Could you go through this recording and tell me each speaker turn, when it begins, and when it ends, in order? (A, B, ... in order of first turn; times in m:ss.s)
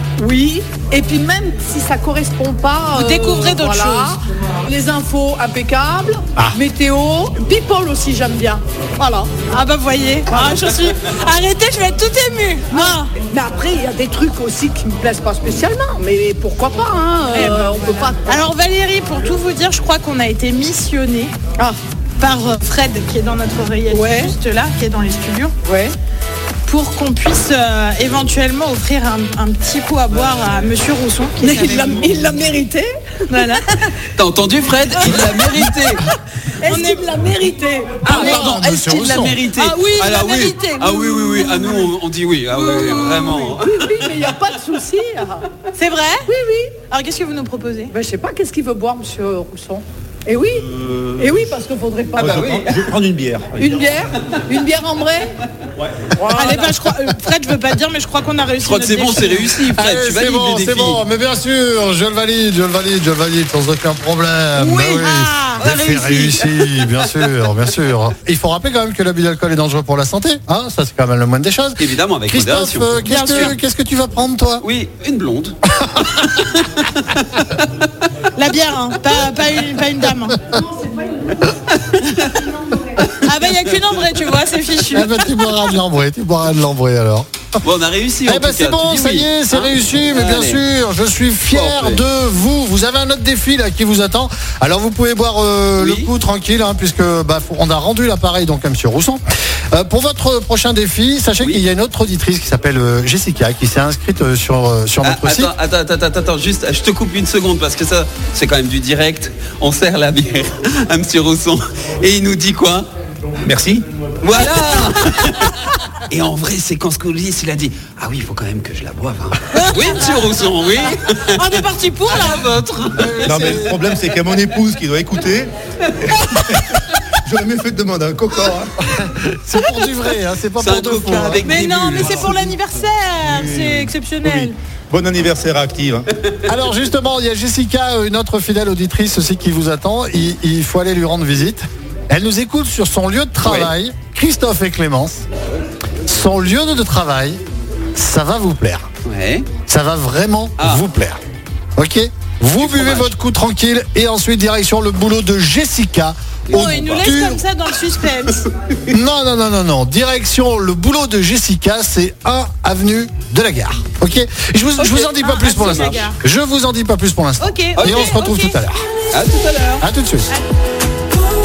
0:00.2-0:09.3 A
0:02.9-0:04.2 B
0:09.5-0:13.1 B
0:10.3-0:10.7 A
0:12.7-0:18.4 A
0:17.3-0:21.4 B
0:22.2-0:25.5 B
0:23.9-0:24.3 A
0:25.6-0:26.0 A
0:26.7-0:32.1 B
0:31.4-0:33.9 A
0:33.3-0:33.6 B
0:34.2-0:36.0 C
0:35.2-0:36.0 A
0:36.6-0:38.4 A
0:36.6-0:37.1 B
0:38.0-0:38.5 B
0:38.0-0:44.3 C
0:38.1-0:39.4 D
0:39.5-0:41.9 B
0:42.5-0:43.3 B
0:43.0-0:45.5 A
0:45.8-0:46.3 B
0:46.3-0:46.7 A
0:46.9-0:47.9 B
0:47.9-0:52.7 A
0:52.2-0:53.7 E
0:53.6-0:55.4 A
0:56.2-0:56.8 A
0:56.3-0:59.5 B
0:58.6-1:01.0 C
0:59.7-1:14.6 D
1:04.6-1:06.4 B
1:05.6-1:07.4 C
1:11.8-1:13.6 C
1:13.0-1:13.5 B
1:14.6-1:15.6 C
1:15.8-1:16.2 D
1:16.2-1:17.4 C
1:18.4-1:20.4 B
1:20.5-1:21.5 A
1:21.9-1:22.4 C
1:22.4-1:22.9 A
1:23.1-1:23.5 C
1:23.2-1:25.5 B
1:24.9-1:27.3 D
1:27.6-1:30.6 C
1:28.3-1:45.5 D
1:31.5-1:32.0 C
1:35.8-1:36.1 C
1:45.0-1:52.9 C
1:53.5-1:53.8 E
1:54.2-1:55.6 C
1:56.1-2:03.8 C
1:59.5-2:00.2 B
2:01.3-2:02.6 B
2:03.0-2:03.7 D
2:03.2-2:05.5 E
2:06.0-2:06.7 E
2:07.2-2:08.7 E
2:08.8-2:11.6 D
2:10.6-2:12.3 C
2:11.4-2:14.6 B
2:13.3-2:16.1 E
2:16.5-2:25.2 D
2:23.4-2:23.7 C
2:26.1-2:27.4 D
2:27.9-2:28.9 D
2:29.1-2:29.5 C
2:29.7-2:31.2 D
2:30.6-2:30.8 C
2:31.8-2:37.4 D
2:32.6-2:33.1 C
2:36.5-2:37.1 C
2:36.5-2:38.4 B
2:38.9-2:48.8 D
2:44.8-2:46.2 B
2:45.6-2:46.1 C
2:47.4-2:48.6 B
2:47.8-2:48.2 C
2:49.1-2:49.8 C
2:49.8-2:50.3 D